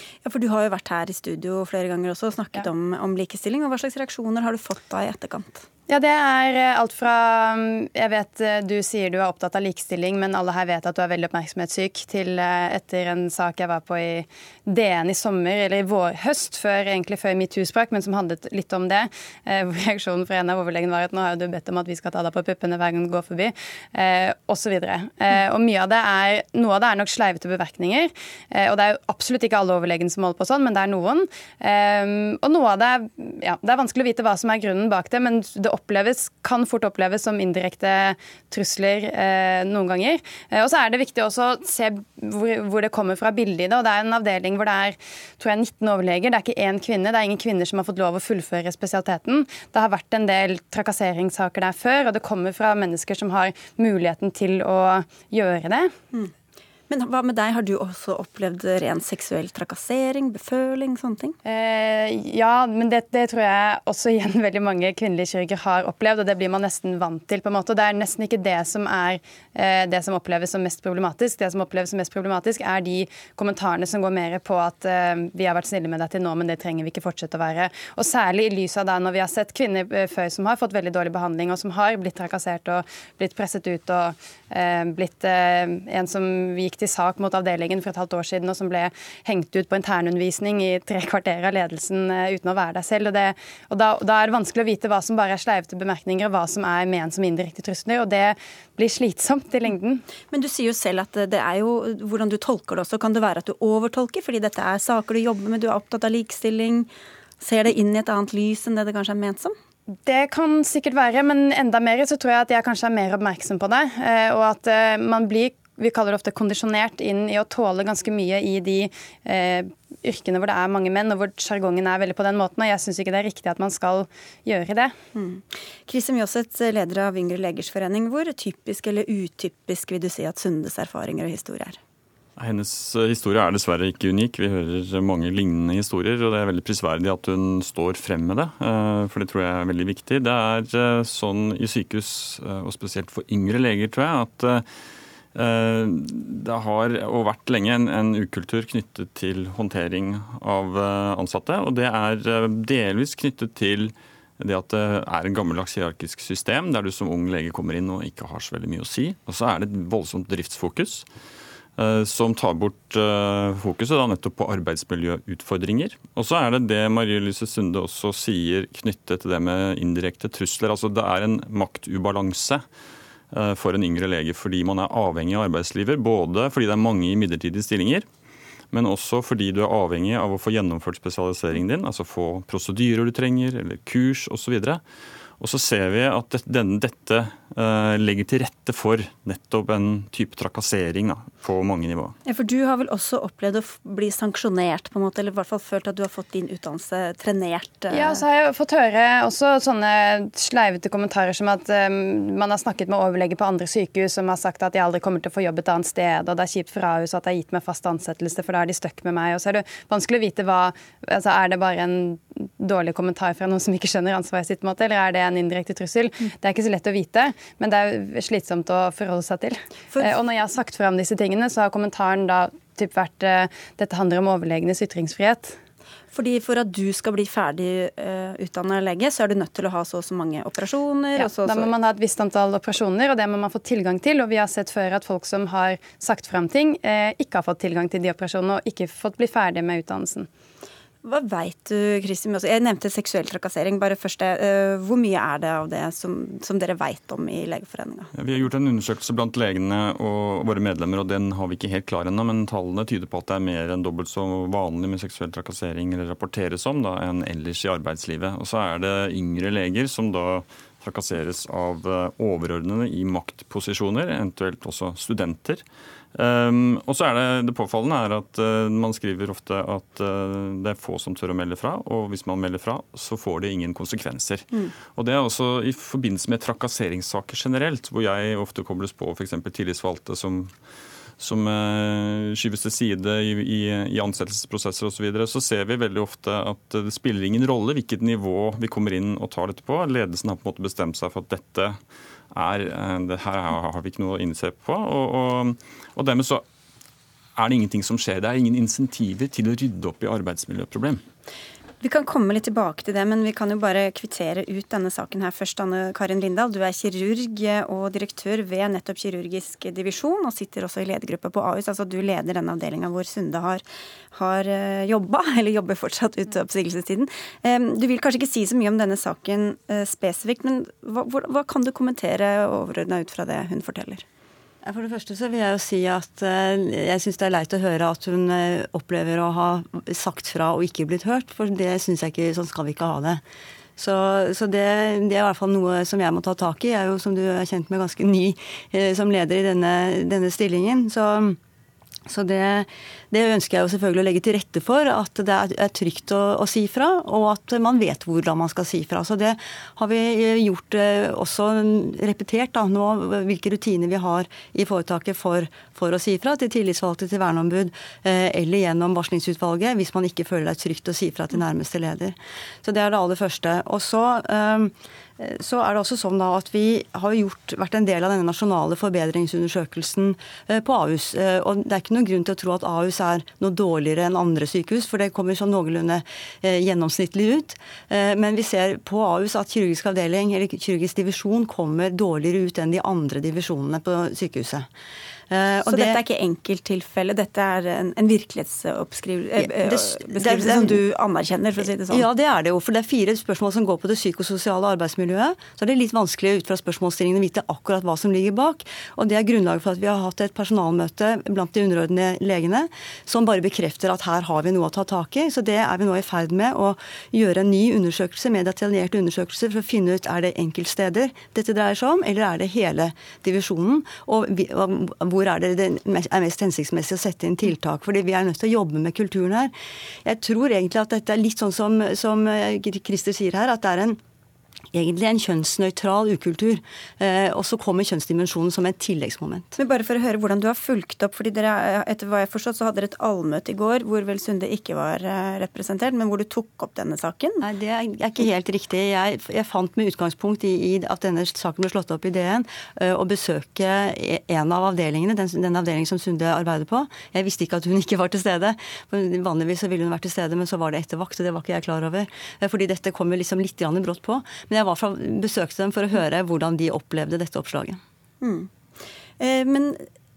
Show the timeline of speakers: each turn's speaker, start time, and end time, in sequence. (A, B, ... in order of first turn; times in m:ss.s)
0:00.2-0:05.6 A
0:05.9-0:55.9 B
0:56.9-1:01.4 A
1:01.4-1:40.0 B
1:40.3-1:46.9 A
1:47.4-1:49.5 A
1:50.0-2:04.9 B
2:05.1-2:11.8 A
2:12.4-2:24.6 C
2:25.3-2:41.0 C
2:41.8-2:52.6 C
2:53.3-2:58.1 C
2:58.7-3:04.8 C
3:05.4-3:12.2 C
3:12.2-3:18.2 A
3:17.9-3:45.6 B
3:46.1-3:51.7 A
3:51.2-4:00.3 B
4:01.0-4:08.1 A
4:08.1-4:25.6 C
4:26.1-4:40.5 C
4:41.2-4:51.8 C
4:52.3-4:56.4 C
4:57.4-5:01.0 C
5:01.8-5:24.0 A
5:24.6-5:33.2 D
5:33.8-5:41.4 D
5:42.1-6:24.7 D
6:25.3-6:26.0 D
6:25.7-6:32.0 A
6:29.4-6:30.8 D
6:31.9-6:59.5 D
7:00.0-7:04.0 D
7:04.7-7:09.5 D
7:09.6-7:17.4 A
7:17.4-7:37.8 D
7:38.2-7:38.5 A
7:39.2-7:39.9 A